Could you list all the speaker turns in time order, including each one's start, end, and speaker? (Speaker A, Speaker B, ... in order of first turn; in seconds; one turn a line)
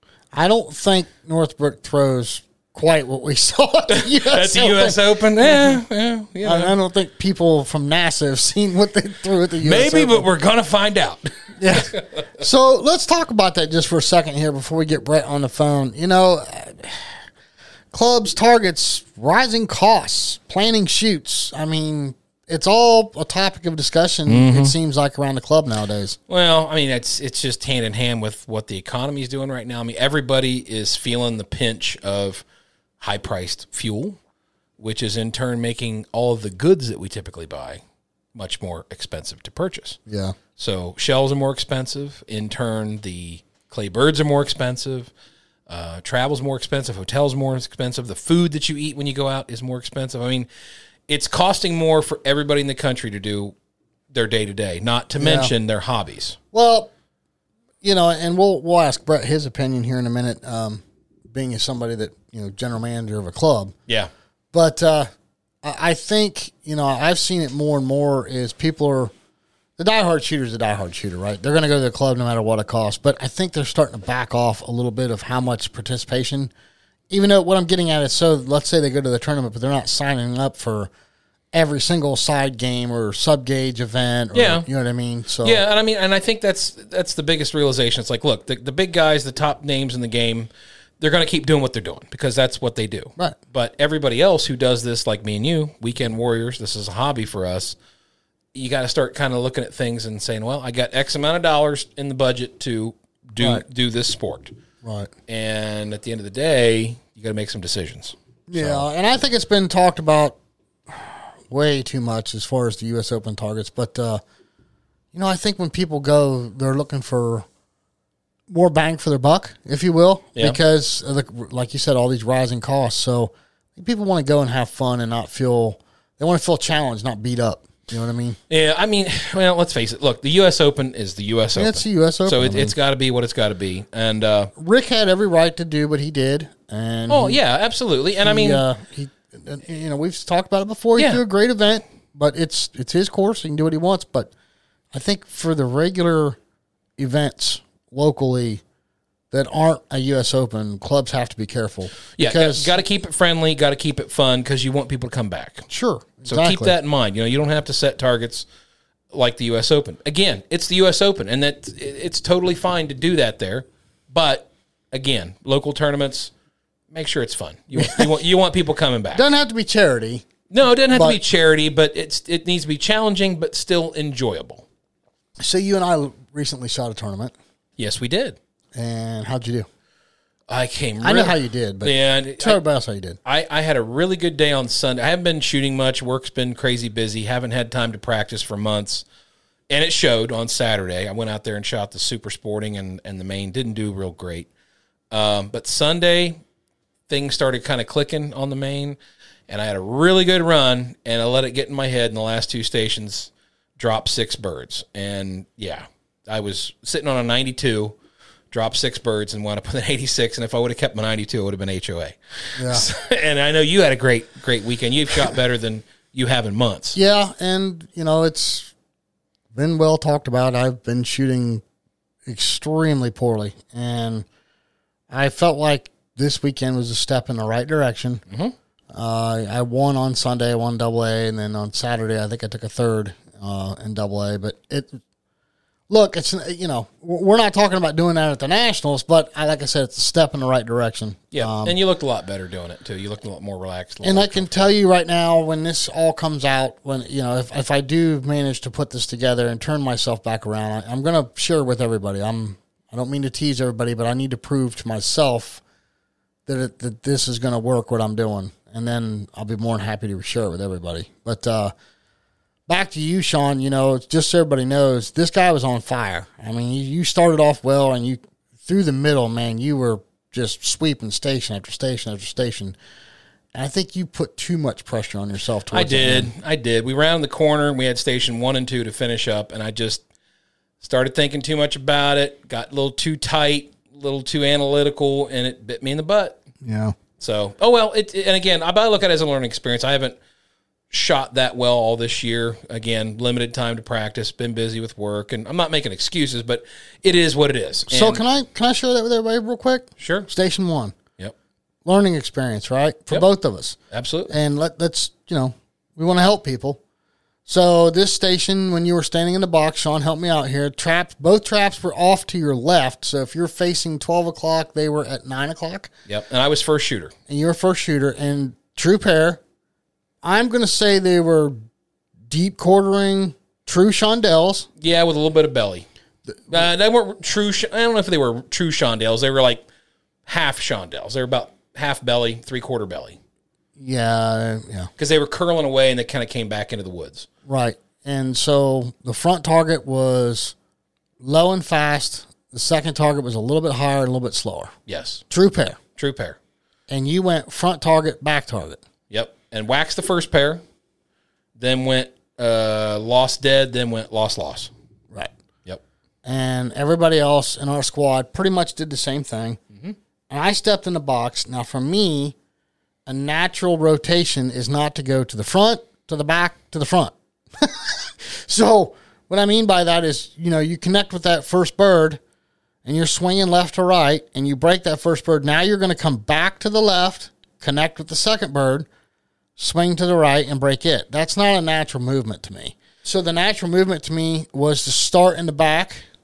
Speaker A: 0.3-5.8
Speaker B: 3.9-6.7
Speaker A: 6.4-10.2
Speaker B: 9.6-12.2
Speaker A: 11.6-17.2
Speaker A: 17.9-26.2
Speaker B: 24.3-24.7
Speaker B: 26.3-32.4
Speaker B: 33.0-34.2
Speaker B: 34.8-37.8
Speaker B: 38.3-40.0
Speaker A: 40.1-40.4
Speaker B: 40.6-45.1
Speaker B: 45.7-50.5
Speaker B: 51.1-53.5
Speaker B: 54.1-56.4
Speaker A: 55.2-55.5
Speaker A: 56.5-56.9
Speaker A: 57.8-63.7
Speaker A: 64.5-65.1
Speaker A: 65.6-69.1
Speaker A: 69.8-76.5
Speaker A: 77.1-80.9
Speaker A: 81.5-85.6
Speaker B: 84.3-84.7
Speaker B: 85.4-97.8
Speaker B: 98.5-104.5
Speaker A: 104.8-105.1
Speaker B: 105.3-108.8
Speaker A: 108.5-110.3
Speaker A: 110.9-114.2
Speaker A: 115.1-117.5
Speaker A: 118.5-128.4
Speaker B: 128.5-134.5
Speaker A: 131.6-132.7
Speaker A: 134.6-137.4
Speaker B: 137.1-138.6
Speaker A: 138.2-144.3
Speaker A: 144.9-146.4
Speaker A: 147.0-148.6
Speaker A: 149.3-152.7
Speaker B: 152.2-155.7
Speaker A: 155.7-156.7
Speaker B: 156.2-158.5
Speaker B: 159.1-166.3
Speaker B: 166.9-169.2
Speaker A: 167.8-168.1
Speaker A: 169.1-170.2
Speaker B: 170.5-174.6
Speaker A: 170.9-171.2
Speaker A: 175.4-177.3
Speaker B: 177.8-178.4
Speaker A: 178.7-179.7
Speaker B: 180.5-182.6
Speaker A: 181.0-183.2
Speaker B: 183.2-189.0
Speaker B: 189.7-194.5
Speaker B: 195.1-196.4
Speaker B: 197.1-207.9
Speaker B: 208.5-216.9
Speaker A: 212.6-212.8
Speaker A: 216.9-218.7
Speaker A: 219.5-221.6
Speaker A: 222.2-224.2
Speaker A: 225.1-228.2
Speaker B: 228.3-228.5
Speaker A: 228.9-235.0
Speaker A: 235.9-241.8
Speaker B: 241.3-244.7
Speaker A: 244.0-255.6
Speaker A: 256.4-261.7
Speaker A: 262.7-272.7
Speaker A: 273.5-276.3
Speaker B: 275.7-280.0
Speaker B: 280.8-286.4
Speaker A: 286.6-286.9
Speaker B: 287.2-290.2
Speaker B: 290.9-298.2
Speaker A: 297.9-300.9
Speaker B: 300.0-300.3
Speaker A: 301.8-303.8
Speaker B: 303.9-304.3
Speaker A: 304.3-306.8
Speaker A: 307.4-315.9
Speaker B: 316.1-317.1
Speaker A: 317.3-319.4
Speaker A: 320.2-321.6
Speaker A: 322.3-324.7
Speaker B: 324.8-325.9
Speaker A: 326.3-326.6
Speaker B: 326.5-329.6
Speaker B: 330.2-333.2
Speaker A: 333.8-334.9
Speaker B: 335.0-337.3
Speaker A: 337.5-340.5
Speaker A: 341.2-344.7
Speaker B: 344.9-345.2
Speaker A: 345.3-345.8
Speaker B: 346.0-346.4
Speaker A: 346.9-348.8
Speaker B: 349.1-350.6
Speaker B: 351.6-354.7
Speaker A: 356.2-359.6
Speaker A: 360.3-362.3
Speaker A: 363.1-372.2
Speaker A: 372.8-378.9
Speaker A: 379.6-386.1